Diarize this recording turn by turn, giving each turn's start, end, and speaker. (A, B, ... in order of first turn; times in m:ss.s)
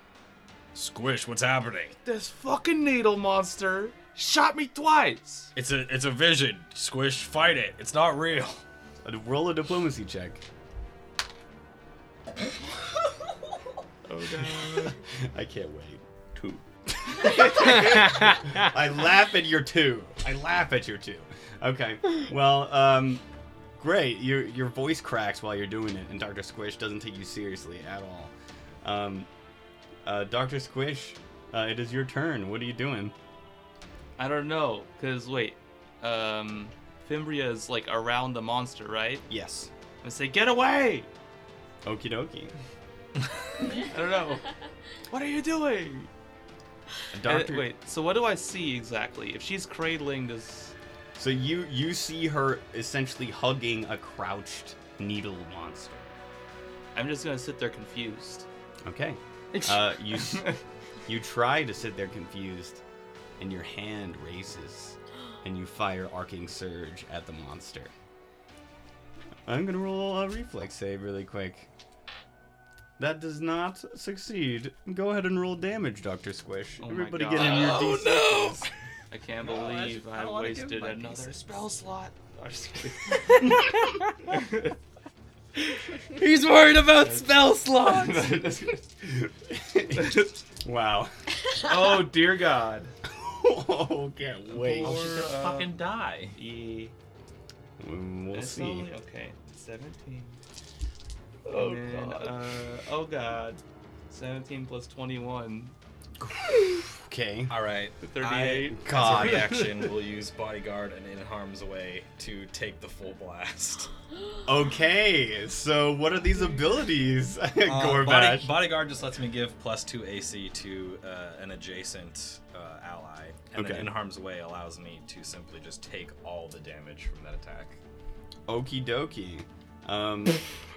0:00.7-0:02.0 A
0:02.0-0:05.5 B
0:05.6-0:08.6 A
0:09.0-0:10.4 C
0:14.0-0:15.0 B
0:14.3-0:23.2 C
0:23.8-0:28.3 C
0:28.8-0:29.3 C
0:30.0-0:33.2 C
0:34.2-0:39.3 B
0:39.3-0:39.7 C
0:40.0-0:41.1 B
0:41.8-0:42.6 C
0:43.6-0:44.5 B
0:45.1-0:46.1 B
0:47.1-0:47.7 C
0:47.2-0:50.8 B
0:51.2-0:56.2 C
0:57.0-0:58.5 B
0:58.9-1:00.5 C
0:59.5-0:59.8 D
1:00.2-1:00.6 B
1:01.0-1:02.8 C
1:03.4-1:07.9 C
1:09.5-1:11.7 C
1:13.0-1:18.7 C
1:16.8-1:18.5 B
1:17.4-1:18.7 D
1:19.1-1:24.8 B
1:19.4-1:21.4 C
1:23.1-1:24.3 D
1:25.7-1:28.5 D
1:26.9-1:27.3 B
1:27.9-1:28.8 B
1:29.1-1:31.1 C
1:30.0-1:30.3 B
1:31.6-1:32.9 B
1:33.1-1:35.1 C
1:34.5-1:36.4 A
1:34.7-1:35.7 B
1:36.3-1:37.0 B
1:37.8-1:38.9 C
1:38.3-1:40.4 B
1:41.5-1:42.4 D
1:41.5-1:45.8 B
1:46.9-1:47.6 C
1:47.5-1:53.9 A
1:48.0-1:49.8 B
1:48.6-1:49.6 C
1:54.5-1:58.5 C
1:57.6-2:07.8 A
2:03.6-2:03.9 C
2:08.5-2:10.4 C